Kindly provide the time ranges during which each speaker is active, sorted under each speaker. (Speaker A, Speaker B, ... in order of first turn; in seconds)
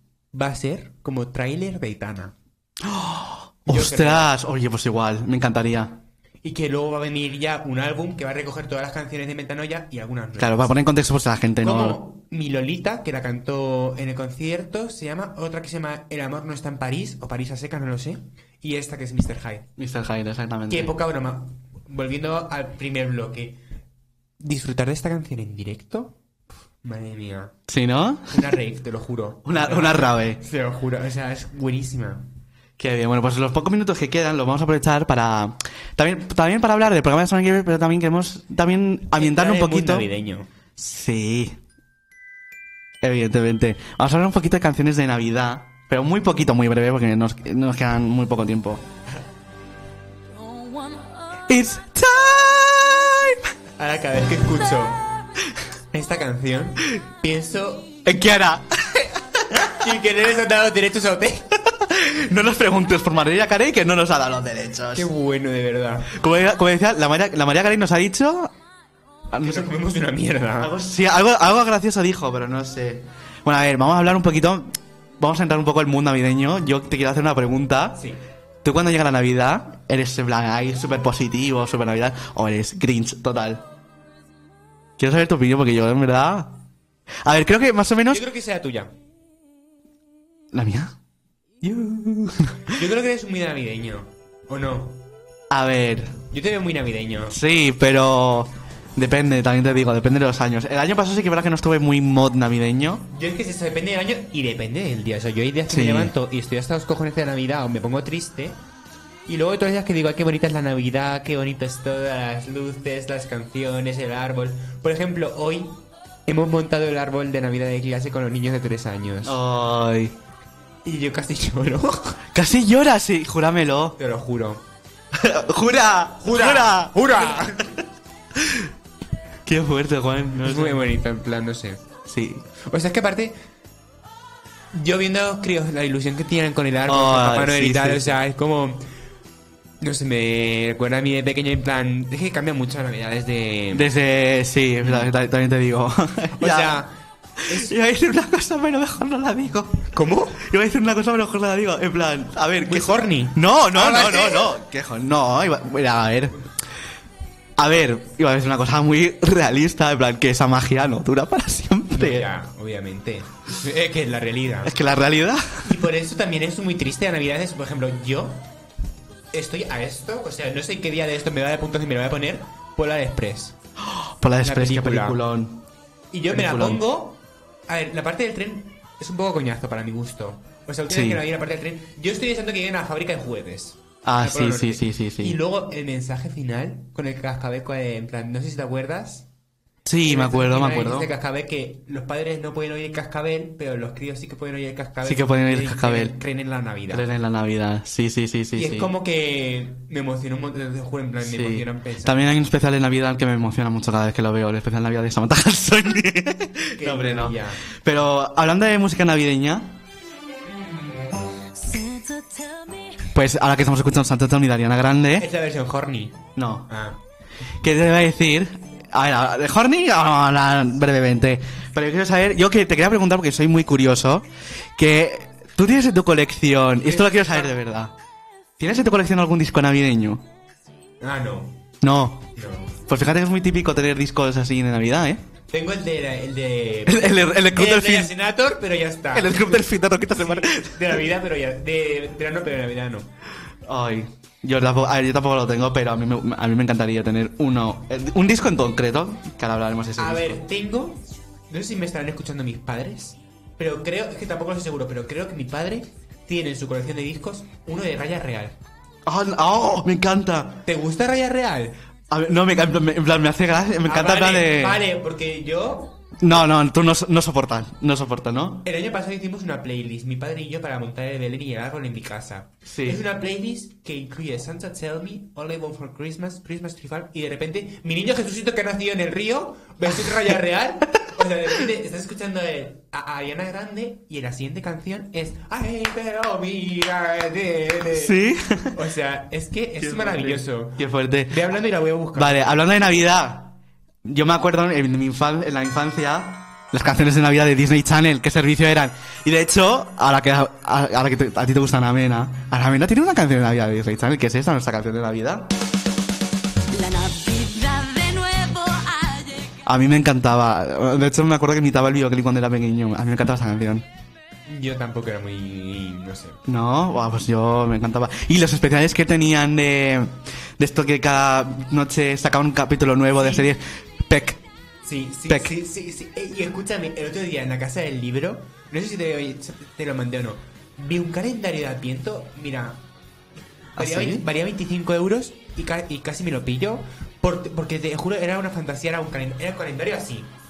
Speaker A: 0.3-2.3, 3.7-4.3, 6.4-10.8, 11.6-19.7, 20.7-23.6, 24.4-26.2, 26.8-27.5, 28.3-32.3, 39.1-40.5, 53.8-55.1, 55.9-58.0, 59.6-61.6, 64.9-66.1, 69.4-70.7, 88.1-88.9, 92.7-95.0, 96.3-97.4, 103.1-108.6, 109.3-119.4, 120.8-122.2, 124.0-124.6, 126.2-127.7, 130.4-131.8, 132.6-133.3, 134.7-138.8, 139.8-143.9, 144.8-145.1, 146.4-147.7, 149.9-150.4, 152.7-154.6, 161.9-164.7, 165.6-168.5, 169.3-173.6, 174.4-175.2, 176.1-189.3, 190.0-197.1, 198.5-202.3, 206.8-207.6, 215.2-217.0, 226.8-227.5, 231.0-231.6, 232.3-232.7, 235.5-243.1, 250.0-258.6, 260.7-261.8, 263.8-265.9, 268.6-288.2, 288.7-292.5, 314.5-316.4, 323.2-323.5, 324.8-332.8, 333.8-340.3
Speaker B: 2.8-6.0, 10.4-12.0, 19.8-20.9, 27.7-28.4, 29.4-30.4, 32.8-40.0, 40.8-41.6, 43.0-48.8, 51.5-53.4, 58.0-59.8, 61.7-65.1, 66.1-68.5, 69.3-69.7, 70.6-78.0, 78.6-83.6, 85.0-86.6, 87.2-88.2, 90.5-90.9, 91.6-92.8, 95.5-96.2, 97.3-103.1, 105.7-106.1, 119.2-120.2, 122.3-124.0, 125.1-127.8, 128.4-128.7, 129.4-130.9, 132.1-132.4, 136.9-138.2, 143.7-146.8, 147.5-156.4, 157.6-162.3, 164.6-165.7, 173.8-175.6, 176.3-176.8, 180.9-181.2, 184.0-185.4, 189.8-191.1, 195.0-196.2, 196.9-198.9, 201.2-209.8, 213.0-215.3, 216.3-216.7, 217.6-227.9, 228.6-230.2, 231.8-232.3, 232.9-235.2, 236.9-238.1, 239.1-240.9, 243.7-250.4, 259.1-260.6, 262.1-264.8, 266.2-268.6, 272.6-273.0, 287.9-288.8, 289.8-291.4, 292.1-305.5, 309.6-313.8, 316.5-324.4, 325.3-325.5, 333.8-334.2
Speaker C: 50.4-51.0, 211.6-212.9, 306.7-309.6